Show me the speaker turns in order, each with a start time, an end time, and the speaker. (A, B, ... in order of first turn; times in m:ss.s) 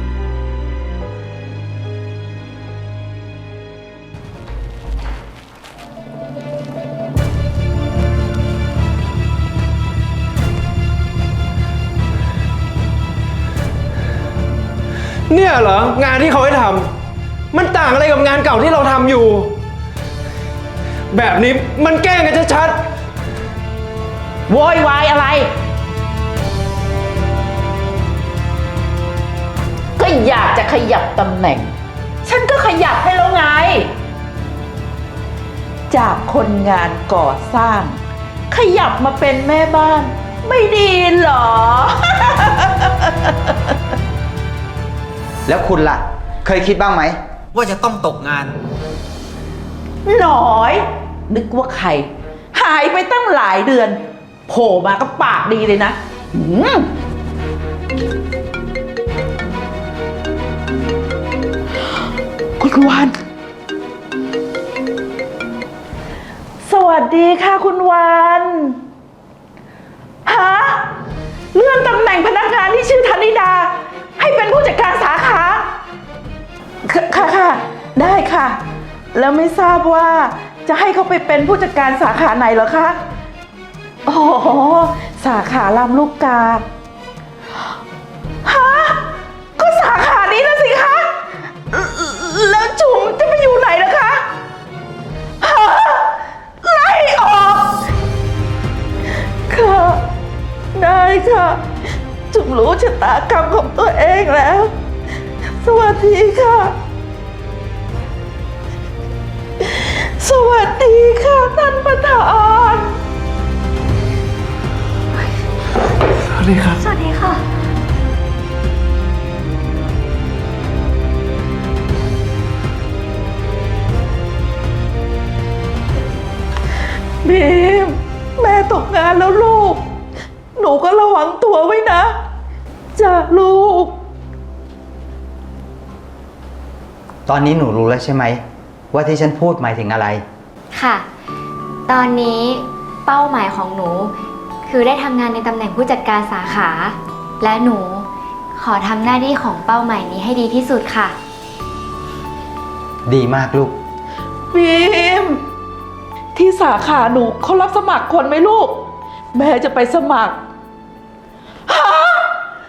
0:15.3-0:16.9 A
0:17.5-0:19.6 A
0:21.1-0:22.8 A
0:24.5-0:25.5 B
0:30.0-0:31.7 B
0:32.2-0:33.9 B
0:35.9-0:43.6 B
0:45.5-0:48.5 C
0:50.0-0:56.9 B
1:02.6-1:03.2 B
1:06.6-1:08.8 B
1:10.2-1:10.9 B
1:11.5-1:15.7 B
1:16.8-1:18.6 B
1:19.1-1:23.0 B
1:24.1-1:26.7 B
1:28.4-1:31.2 B
1:31.7-1:34.3 B
1:35.4-1:37.8 B
1:39.5-1:40.1 B
1:40.7-1:41.6 B
1:42.3-1:44.7 B
1:45.6-1:46.8 B
1:49.6-1:53.0 B
1:56.3-1:56.8 A
1:56.8-1:57.4 D
2:07.2-2:09.8 B
2:10.6-2:12.2 B
2:13.0-2:13.9 B
2:17.3-2:18.4 C
2:18.9-2:20.2 C
2:20.7-2:21.1 D
2:21.9-2:24.1 D
2:24.7-2:31.2 D
2:33.1-2:33.8 C
2:34.5-2:35.4 B
2:36.4-2:40.4 B
2:41.7-2:42.3 B